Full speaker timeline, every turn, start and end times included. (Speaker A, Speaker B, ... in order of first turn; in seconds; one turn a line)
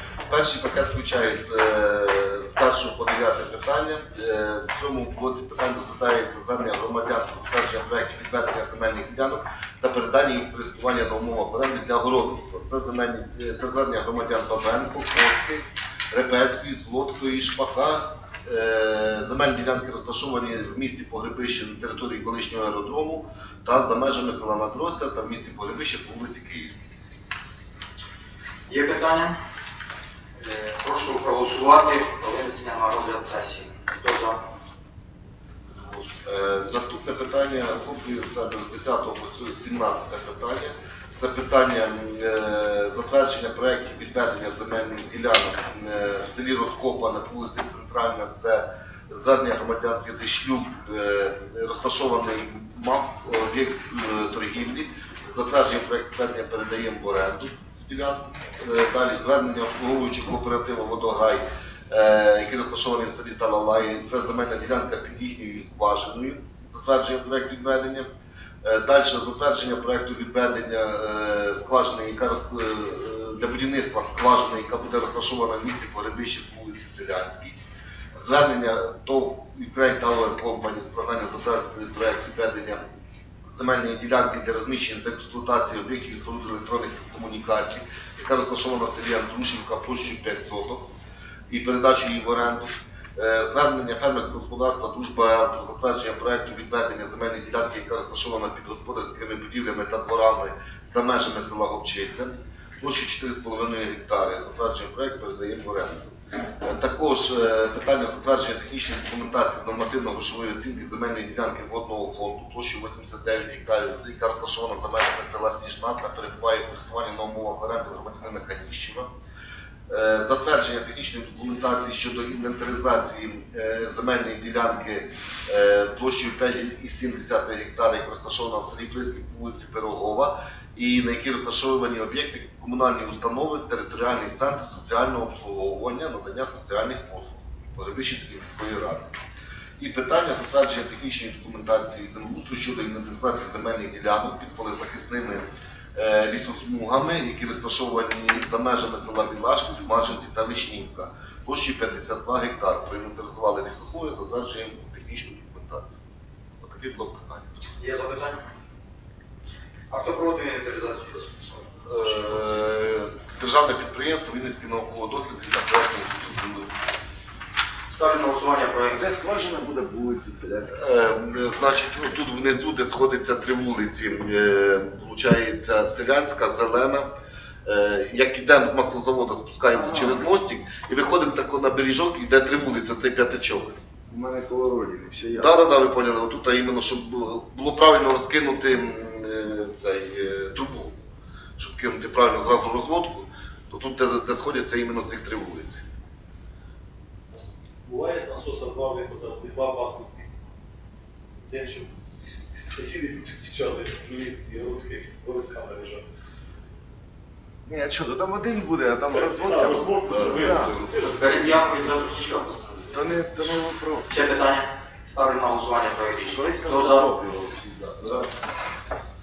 Speaker A: 0.3-26.8
Speaker B: 28.7-29.3
Speaker B: 30.4-34.4
Speaker A: 36.2-68.1
Speaker A: 68.6-77.6
Speaker A: 78.2-82.8
Speaker A: 83.5-90.9
Speaker A: 91.5-119.1
Speaker A: 119.9-139.1
Speaker A: 139.8-155.9
Speaker A: 156.6-157.7
Speaker B: 157.8-158.4
Speaker B: 159.9-162.2
Speaker A: 161.8-166.7
Speaker B: 167.9-169.0
Speaker C: 168.9-170.8
Speaker A: 170.7-177.1
Speaker A: 177.7-183.8
Speaker C: 179.7-180.2
Speaker C: 184.1-185.5
Speaker A: 185.4-190.9
Speaker A: 191.6-195.8
Speaker D: 197.3-200.3
Speaker D: 201.5-201.9
Speaker D: 202.7-206.0
Speaker C: 207.7-210.8
Speaker D: 209.1-211.2
Speaker A: 210.1-211.2
Speaker B: 211.0-212.9
Speaker C: 212.9-214.2
Speaker B: 214.1-217.1
Speaker C: 216.3-218.3